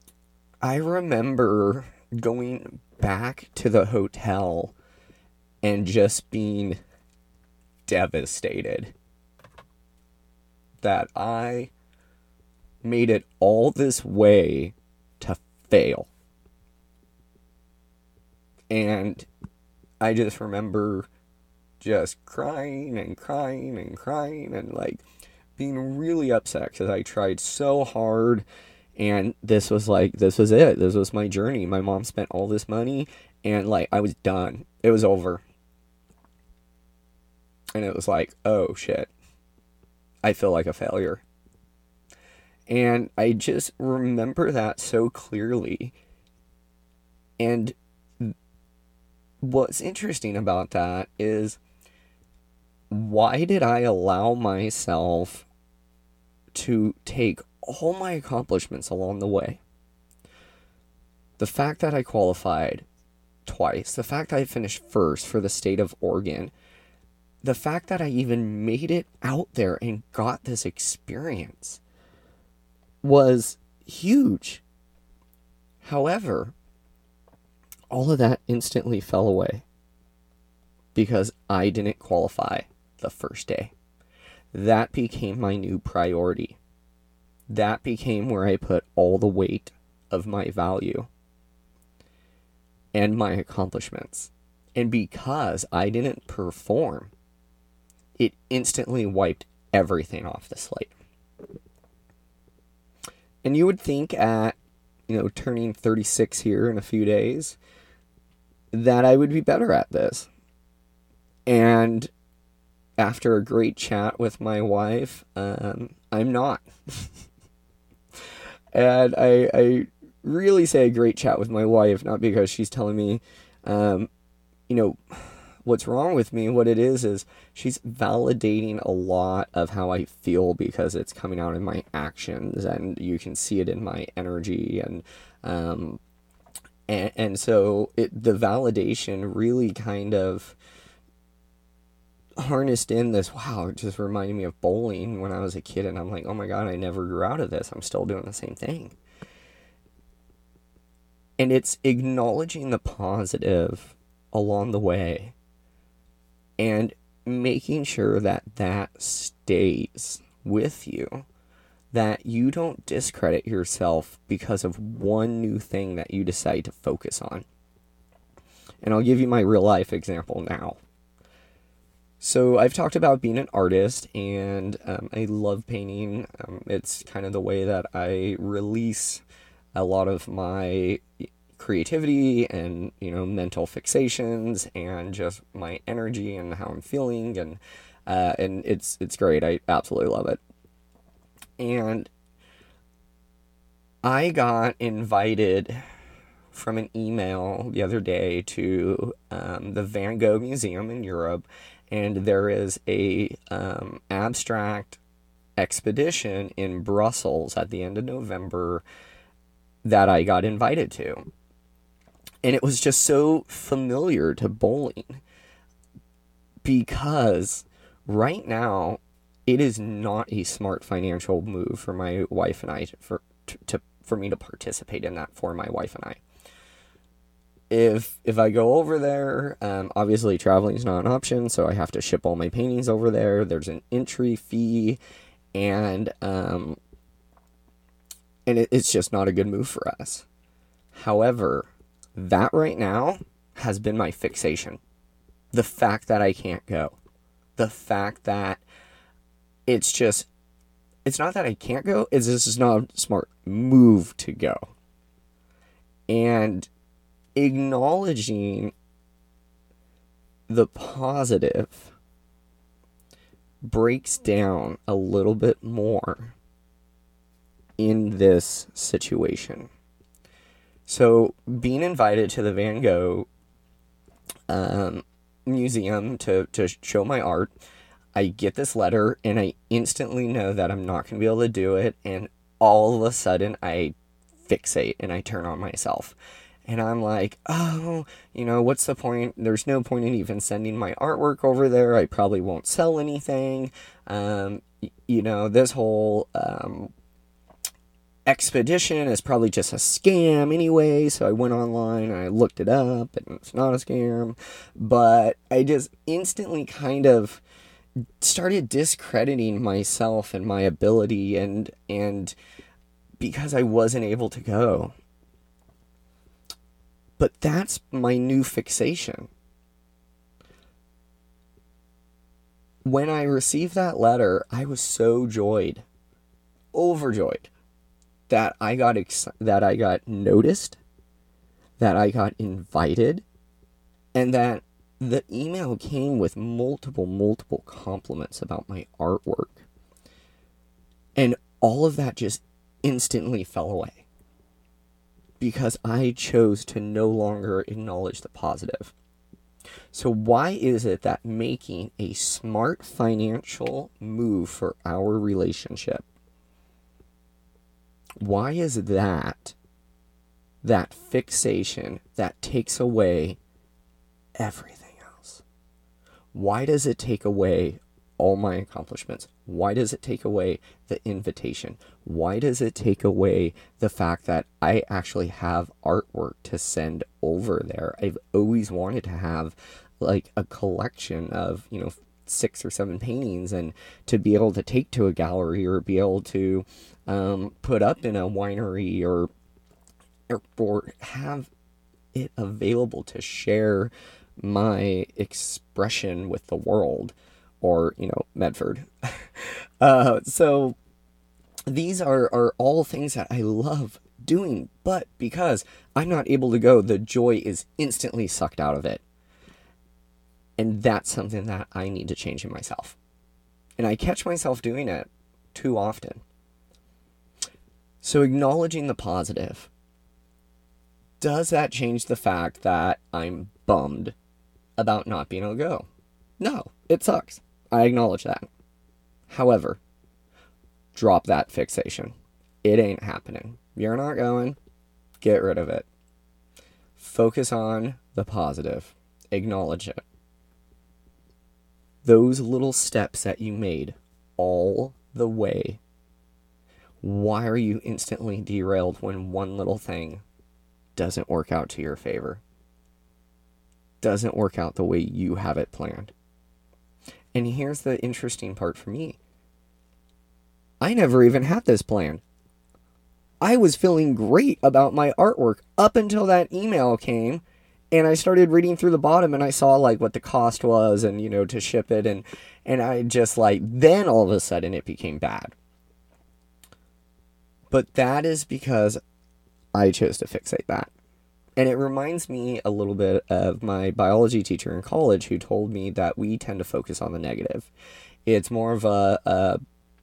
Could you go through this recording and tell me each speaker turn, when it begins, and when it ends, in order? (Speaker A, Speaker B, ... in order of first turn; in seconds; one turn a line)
Speaker A: 0.6-4.7
Speaker A: 5.6-6.8
Speaker A: 7.9-8.9
Speaker A: 10.8-11.7
Speaker A: 12.8-16.1
Speaker A: 18.7-19.3
Speaker A: 20.0-21.1
Speaker A: 21.8-25.0
Speaker A: 25.6-28.4
Speaker A: 29.0-35.4
Speaker A: 37.7-39.1
Speaker A: 40.2-41.2
Speaker A: 42.7-45.9
Speaker A: 47.4-48.3
Speaker A: 49.4-51.6
Speaker A: 52.9-55.5
Speaker A: 56.5-59.6
Speaker A: 61.4-62.9
Speaker A: 63.5-66.5
Speaker A: 67.4-71.8
Speaker A: 73.0-74.6
Speaker A: 75.8-76.5
Speaker A: 77.9-79.6
Speaker A: 80.9-83.7
Speaker A: 84.5-86.6
Speaker A: 87.5-91.1
Speaker A: 92.9-97.1
Speaker A: 98.2-100.9
Speaker A: 103.4-104.6
Speaker A: 105.1-107.6
Speaker A: 108.7-110.3
Speaker A: 111.5-112.1
Speaker A: 113.0-117.1
Speaker A: 118.7-124.1
Speaker A: 124.7-136.0
Speaker A: 136.9-140.6
Speaker A: 142.4-148.9
Speaker A: 151.4-155.3
Speaker A: 156.6-161.2
Speaker A: 161.9-167.4
Speaker A: 168.8-170.8
Speaker A: 172.2-179.2
Speaker A: 179.7-190.4
Speaker A: 191.6-192.1
Speaker A: 194.0-195.8
Speaker A: 196.5-205.0
Speaker A: 205.6-208.8
Speaker A: 209.8-211.3
Speaker A: 212.4-215.2
Speaker A: 216.6-226.2
Speaker A: 227.7-235.0
Speaker A: 235.5-236.8
Speaker A: 238.4-240.3
Speaker A: 240.9-244.8
Speaker A: 245.5-247.0
Speaker A: 247.6-248.6
Speaker A: 249.7-250.3
Speaker A: 251.0-254.7
Speaker A: 256.1-256.7
Speaker A: 257.4-258.7
Speaker A: 260.5-261.9
Speaker A: 263.6-266.4
Speaker A: 267.8-269.7
Speaker A: 270.9-273.3
Speaker A: 274.5-277.5
Speaker A: 278.1-283.9
Speaker A: 284.4-296.9
Speaker A: 298.3-307.4
Speaker A: 308.2-312.3
Speaker A: 313.2-314.9
Speaker A: 317.2-319.3
Speaker A: 322.8-325.8
Speaker A: 326.7-327.5
Speaker A: 328.3-330.8
Speaker A: 331.8-333.2
Speaker A: 334.1-339.6
Speaker A: 341.1-344.1
Speaker A: 345.4-348.9
Speaker A: 349.9-356.0
Speaker A: 358.2-359.6
Speaker A: 360.6-363.4
Speaker A: 364.4-365.4
Speaker A: 366.3-389.3
Speaker A: 390.3-391.5
Speaker A: 392.1-400.8
Speaker A: 401.7-409.0
Speaker A: 410.6-413.0
Speaker A: 413.8-416.2
Speaker A: 418.0-419.7
Speaker A: 421.2-424.1
Speaker A: 424.8-425.9
Speaker A: 426.4-428.5
Speaker A: 429.3-429.8
Speaker A: 430.9-434.6
Speaker A: 435.2-435.9
Speaker A: 436.9-440.0
Speaker A: 442.0-445.8
Speaker A: 447.0-450.2
Speaker A: 450.9-452.4
Speaker A: 454.0-456.1
Speaker A: 457.3-459.2
Speaker A: 460.8-462.2
Speaker A: 463.4-475.5
Speaker A: 477.7-479.0
Speaker A: 479.7-480.9
Speaker A: 481.6-487.7
Speaker A: 488.2-489.6